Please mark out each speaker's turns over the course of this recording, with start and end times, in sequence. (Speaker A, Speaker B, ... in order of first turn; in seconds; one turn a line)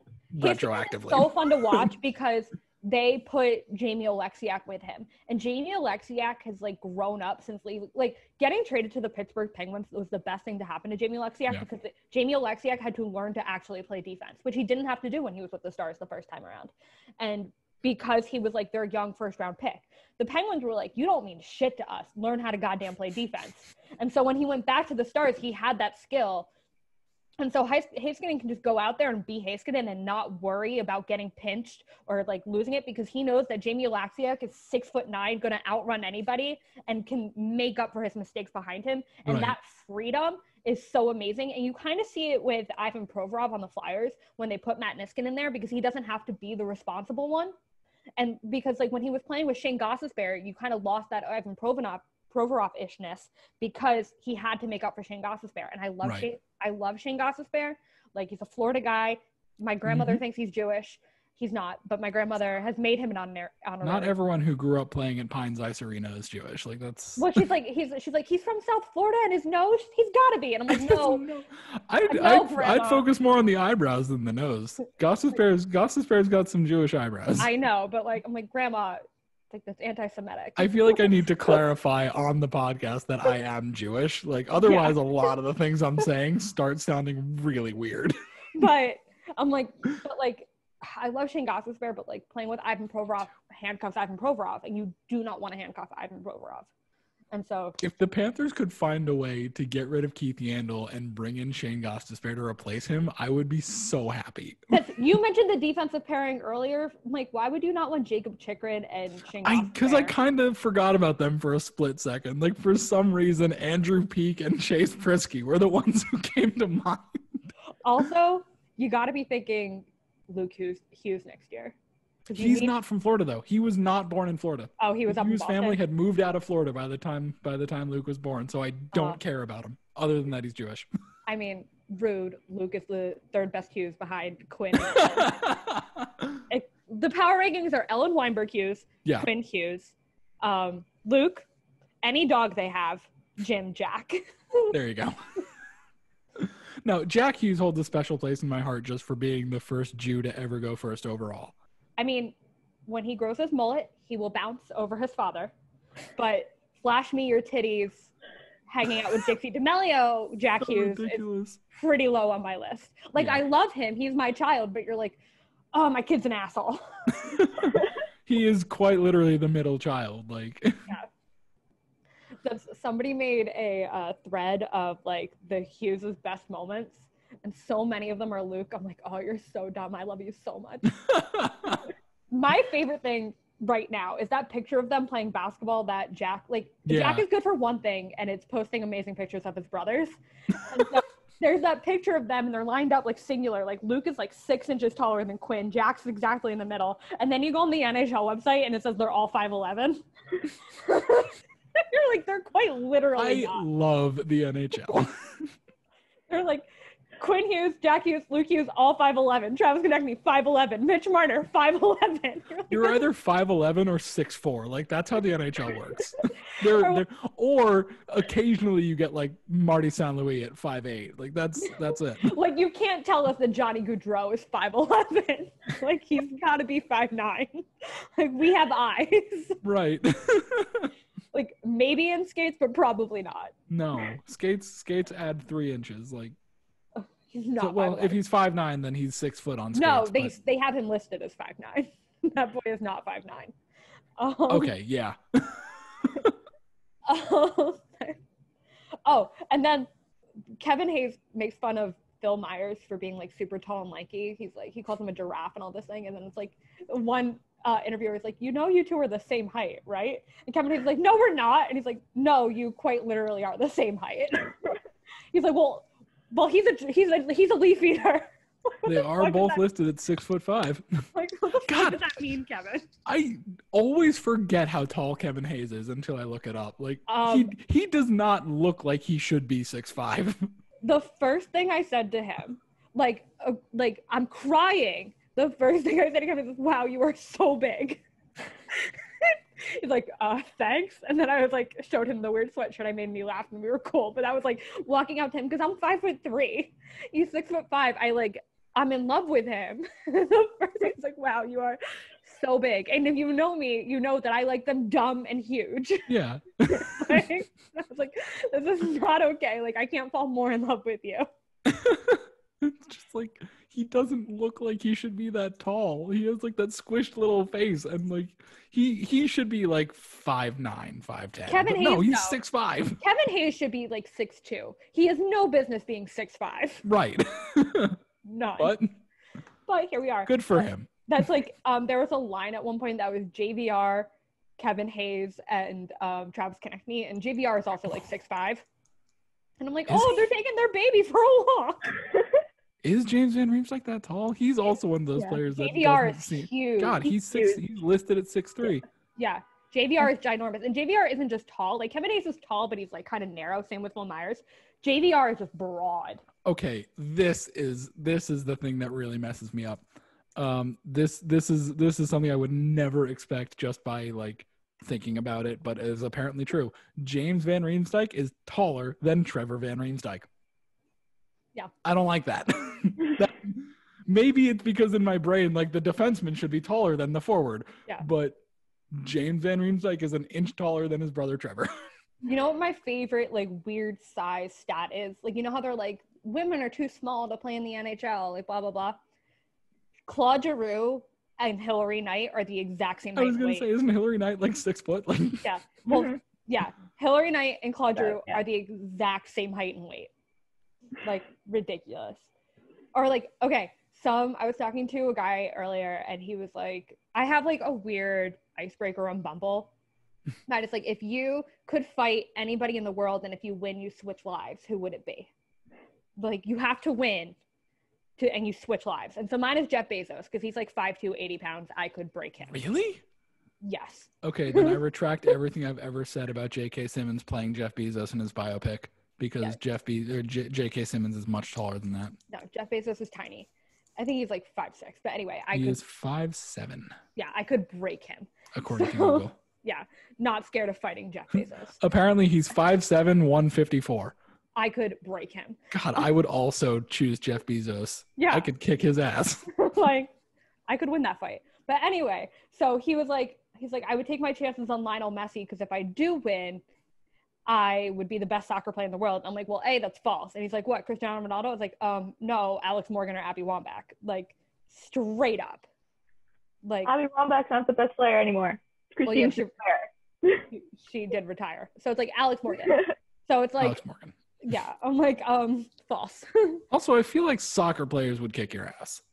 Speaker A: 0.3-1.9
Speaker B: 0.4-26.5
Speaker B: 27.4-47.5
Speaker A: 39.3-39.6
Speaker B: 48.2-64.1
Speaker A: 59.9-60.2
Speaker A: 63.8-67.5
Speaker B: 67.2-71.2
Speaker A: 70.7-77.5
Speaker B: 72.1-73.1
Speaker B: 77.4-81.1
Speaker A: 80.6-88.2
Speaker B: 84.5-85.0
Speaker B: 88.5-96.7
Speaker B: 97.3-97.8
Speaker A: 97.8-104.7
Speaker B: 104.7-110.1
Speaker A: 109.4-117.2
Speaker B: 117.8-121.8
Speaker B: 122.3-122.7
Speaker A: 122.3-130.9
Speaker B: 124.8-125.8
Speaker B: 128.9-129.2
Speaker B: 131.3-135.5
Speaker A: 135.0-136.1
Speaker B: 136.5-141.5
Speaker B: 142.0-144.7
Speaker A: 144.7-145.2
Speaker A: 146.4-151.5
Speaker B: 152.0-152.3
Speaker B: 152.9-155.5
Speaker B: 156.2-158.1
Speaker B: 158.7-165.2
Speaker A: 160.6-161.6
Speaker B: 165.7-167.7
Speaker A: 167.3-170.9
Speaker B: 172.4-181.0
Speaker A: 181.0-181.8
Speaker B: 182.3-200.0
Speaker A: 186.9-187.2
Speaker B: 200.7-203.7
Speaker A: 203.2-205.5
Speaker B: 206.3-213.0
Speaker A: 212.7-222.3
Speaker B: 216.7-217.0
Speaker B: 221.6-229.6
Speaker A: 229.6-230.9
Speaker B: 231.3-233.5
Speaker A: 233.7-236.3
Speaker B: 237.0-238.2
Speaker A: 237.6-240.3
Speaker B: 239.7-243.5
Speaker B: 244.2-244.7
Speaker A: 244.5-246.3
Speaker B: 247.1-248.2
Speaker B: 249.1-249.9
Speaker B: 250.6-264.8
Speaker B: 265.3-269.6
Speaker A: 268.9-271.1
Speaker B: 271.1-272.9
Speaker A: 271.7-272.1
Speaker A: 273.1-280.5
Speaker B: 277.1-277.6
Speaker B: 280.8-288.0
Speaker B: 288.7-306.1
Speaker A: 306.1-307.3
Speaker B: 306.7-311.3
Speaker A: 311.7-323.0
Speaker B: 321.5-322.4
Speaker B: 323.0-326.9
Speaker A: 326.8-328.0
Speaker B: 328.2-328.7
Speaker A: 328.6-328.9
Speaker B: 329.7-338.6
Speaker A: 330.3-330.9
Speaker B: 339.6-342.1
Speaker A: 339.9-340.2
Speaker A: 342.8-348.9
Speaker B: 345.3-347.6
Speaker B: 349.2-356.2
Speaker A: 356.4-370.3
Speaker A: 371.8-378.4
Speaker A: 378.9-381.7
Speaker B: 382.2-389.0
Speaker B: 390.1-393.7
Speaker A: 393.2-395.5
Speaker B: 395.4-400.1
Speaker B: 401.0-402.3
Speaker B: 402.9-409.7
Speaker B: 410.5-415.3
Speaker B: 416.2-417.4
Speaker B: 418.2-422.6
Speaker A: 422.5-423.0
Speaker B: 423.6-424.8
Speaker A: 424.2-432.2
Speaker B: 432.3-435.8
Speaker A: 435.5-436.9
Speaker B: 437.2-441.8
Speaker A: 438.5-439.4
Speaker A: 441.8-444.1
Speaker B: 444.6-446.1
Speaker A: 445.7-449.5
Speaker B: 448.2-448.5
Speaker B: 449.5-450.1
Speaker B: 450.7-456.6
Speaker B: 457.5-465.6
Speaker B: 466.6-466.9
Speaker C: 466.9-470.4
Speaker B: 469.0-469.5
Speaker B: 470.5-473.8
Speaker A: 473.6-474.1
Speaker B: 474.4-476.6
Speaker A: 476.7-479.0